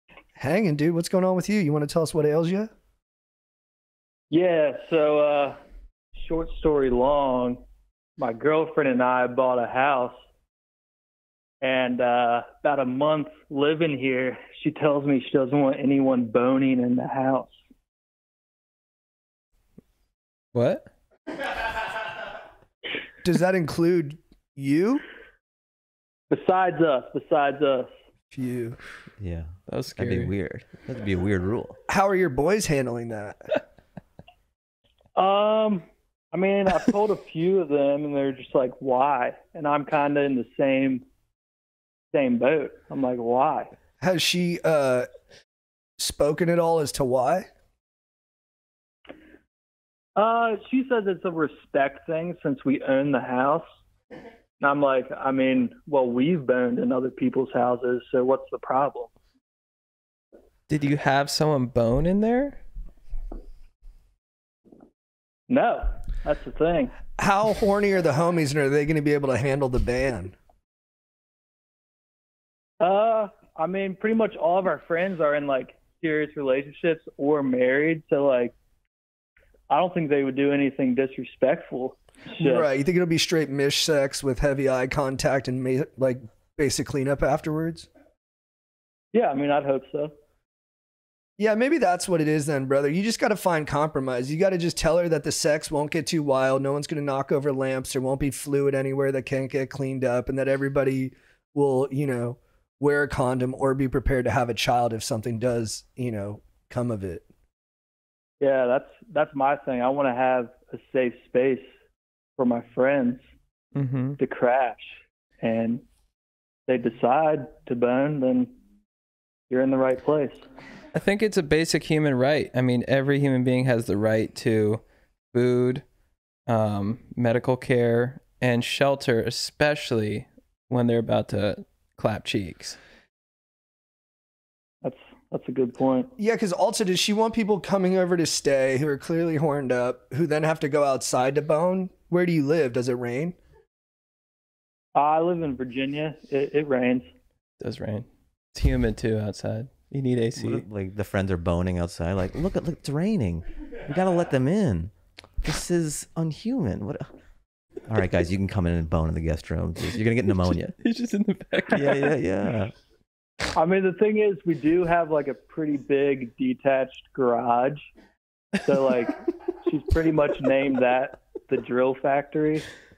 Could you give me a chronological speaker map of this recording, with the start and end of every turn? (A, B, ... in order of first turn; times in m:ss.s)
0:00.4-0:02.7 A
0:04.3-0:05.6 B
0:06.2-0:07.6 B
0:08.2-0:10.2 B
0:11.6-0:17.6 B
0:20.5-0:20.9 C
0:23.2-0:25.0 A
0:26.3-0:27.9 B
0:28.3-0:28.8 A
0:29.2-0:31.8 D
0:29.7-0:30.3 C
0:31.9-0:33.6 A
0:35.2-0:41.0 B
0:42.1-0:43.7 B
0:44.0-0:45.1 A
0:46.0-0:47.5 A
0:50.2-0:53.6 B
0:54.6-0:59.1 B
1:00.7-1:02.6 C
1:05.5-1:07.0 B
1:07.2-1:10.4 A
1:12.8-1:18.5 B
1:19.7-1:22.7 B
1:22.4-1:27.9 A
1:29.1-1:30.1 B
1:31.4-1:47.2 A
1:48.4-1:51.7 B
1:52.4-1:53.2 B
1:53.7-1:54.2 C
1:54.2-1:55.8 B
1:56.7-1:58.5 B
1:59.5-2:00.4 B
2:00.9-2:05.8 C
2:06.5-2:12.8 C
2:14.8-2:16.1 B
2:16.2-2:23.4 A
2:24.9-2:27.1 B
2:27.6-2:30.6 C
2:30.4-2:37.1 D
2:37.8-2:40.7 D
2:40.5-2:42.2 C
2:41.7-2:42.7 D
2:43.5-2:47.9 B
2:48.6-2:52.7 B